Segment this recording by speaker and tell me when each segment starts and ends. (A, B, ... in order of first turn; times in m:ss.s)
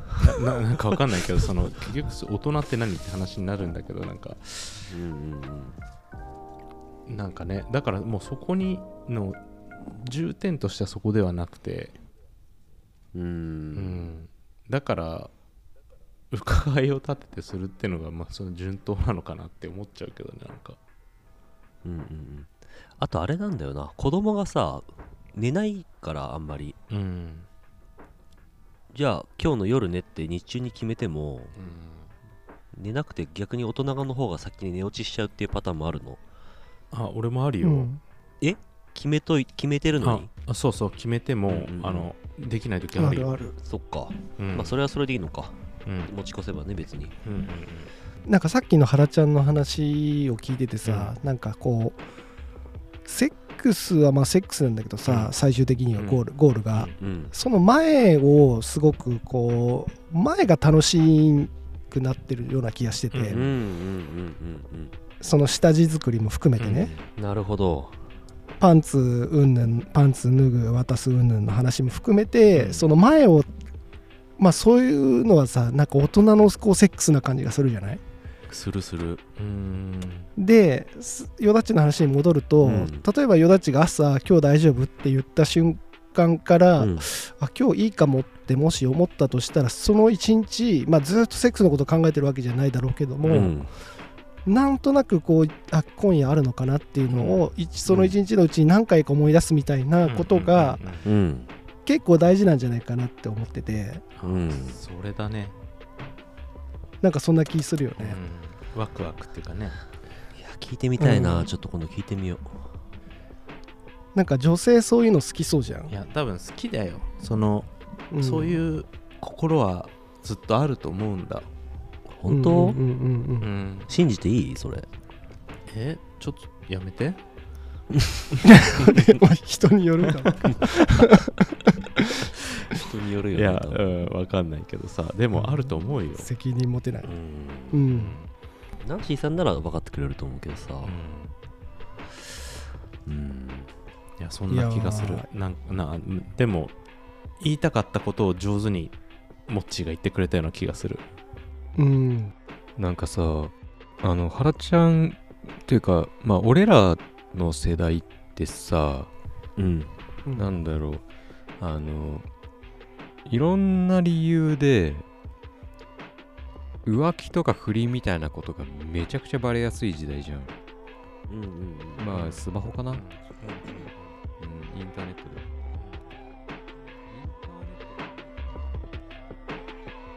0:00.2-0:04.9 A
0:04.9-0:05.8 B
0:07.1-0:12.0 A
0:13.1-0:14.0 B
0:13.7-0:15.3 A
0:16.3-0:20.8 A
0:21.8-0:26.8 B
0:26.9-0:27.5 A
0:28.9-0:31.5 B
0:31.6-0:32.1 A
0:32.7-0:36.2 B
0:36.9-0:37.9 A
0:37.6-0:38.0 C
0:38.4-0:40.3 B
0:40.0-0:43.5 A
0:41.5-0:42.1 B
0:43.0-0:43.5 C
0:43.6-0:47.2 B
0:44.4-0:44.8 A
0:45.9-0:46.1 A
0:47.2-0:47.9 A
0:48.2-0:52.0 C
0:50.8-0:51.2 A
0:53.0-1:03.5 C
0:55.1-0:55.3 A
0:56.0-0:57.0 A
0:57.0-0:57.3 B
1:03.1-1:03.4 A
1:03.3-1:04.9 B
1:05.2-1:06.9 C
1:06.6-1:07.1 A
1:07.1-1:08.0 B
1:08.6-1:13.5 C
1:12.5-1:12.9 A
1:14.4-1:18.0 C
1:18.5-1:19.2 B
1:19.4-1:20.3 A
1:20.4-1:33.6 C
1:22.6-1:23.1 B
1:26.8-1:27.1 B
1:33.2-1:33.7 B
1:34.4-1:40.8 C
1:37.1-1:38.1 A
1:40.0-1:41.1 A
1:41.0-1:41.5 B
1:41.8-1:44.0 C
1:44.2-1:45.6 A
1:44.2-1:44.8 B
1:47.0-1:48.2 C
1:48.0-1:49.8 A
1:50.4-1:52.6 B
1:51.0-1:51.5 C
1:54.2-1:56.0 C
1:55.9-2:01.5 A
1:58.1-1:58.6 C
2:02.2-2:02.8 B
2:02.3-2:03.5 C
2:03.4-2:03.9 A
2:03.9-2:04.9 B
2:05.7-2:07.2 A
2:08.4-2:11.5 C
2:10.2-2:10.5 A
2:12.0-2:12.3 C
2:12.7-2:13.9 B
2:13.3-2:16.3 A
2:15.3-2:17.2 C
2:17.0-2:17.8 B
2:17.7-2:18.2 C
2:17.9-2:18.3 A
2:18.8-2:20.9 B
2:20.8-2:21.3 A
2:23.1-2:23.7 B
2:24.2-2:26.8 A
2:24.5-2:25.3 C
2:27.4-2:29.0 A
2:29.5-2:31.0 A
2:31.8-2:32.3 C
2:32.8-2:39.1 D
2:39.6-2:39.9 B
2:40.3-2:40.6 C
2:40.4-2:41.0 D
2:41.6-2:42.2 D
2:43.3-2:45.1 D
2:46.9-2:50.6 D
2:51.3-2:52.1 B
2:52.0-2:53.0 D
2:52.1-2:54.2 A
2:54.4-2:55.5 D